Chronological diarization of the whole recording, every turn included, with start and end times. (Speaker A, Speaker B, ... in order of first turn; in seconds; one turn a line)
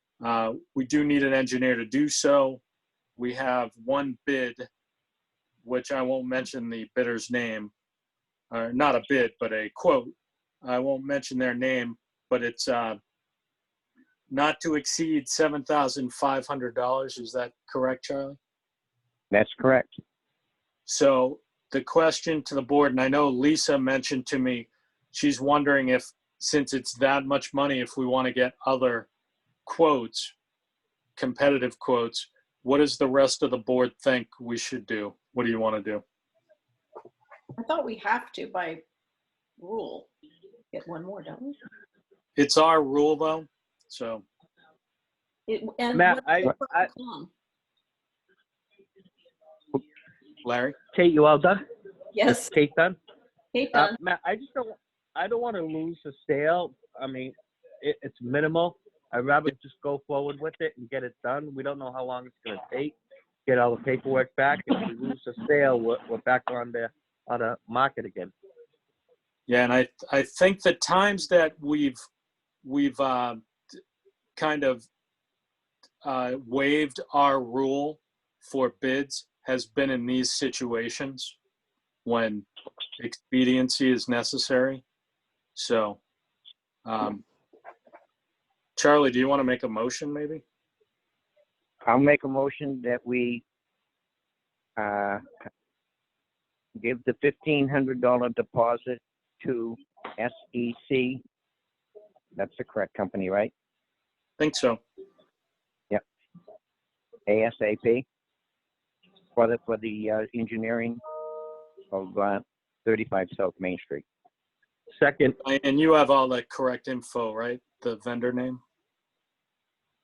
Speaker A: 0.2-2.6
Speaker A: 3.2-4.7
Speaker A: 5.6-7.7
Speaker A: 8.5-13.0
Speaker A: 14.3-18.4
Speaker B: 19.3-20.0
Speaker A: 20.9-29.1
Speaker A: 29.7-30.3
Speaker A: 31.2-36.0
Speaker C: 37.6-38.8
Speaker C: 39.6-40.1
Speaker C: 40.7-41.6
Speaker A: 42.4-44.2
Speaker C: 45.5-47.3
Speaker D: 45.9-46.9
Speaker A: 50.4-50.8
Speaker D: 50.9-51.6
Speaker C: 52.1-52.5
Speaker D: 52.2-53.0
Speaker C: 53.5-54.0
Speaker D: 53.7-63.0
Speaker D: 63.5-68.3
Speaker A: 69.5-72.0
Speaker A: 72.6-73.4
Speaker A: 74.4-74.9
Speaker A: 76.0-81.4
Speaker A: 82.0-82.5
Speaker A: 83.0-84.8
Speaker A: 85.5-86.0
Speaker A: 86.8-87.2
Speaker A: 88.8-90.4
Speaker B: 91.9-93.4
Speaker B: 94.8-95.2
Speaker B: 96.8-101.2
Speaker B: 102.3-103.5
Speaker A: 104.4-104.8
Speaker B: 107.3-108.0
Speaker B: 109.4-111.0
Speaker B: 111.9-114.0
Speaker D: 115.0-115.4
Speaker A: 115.4-118.6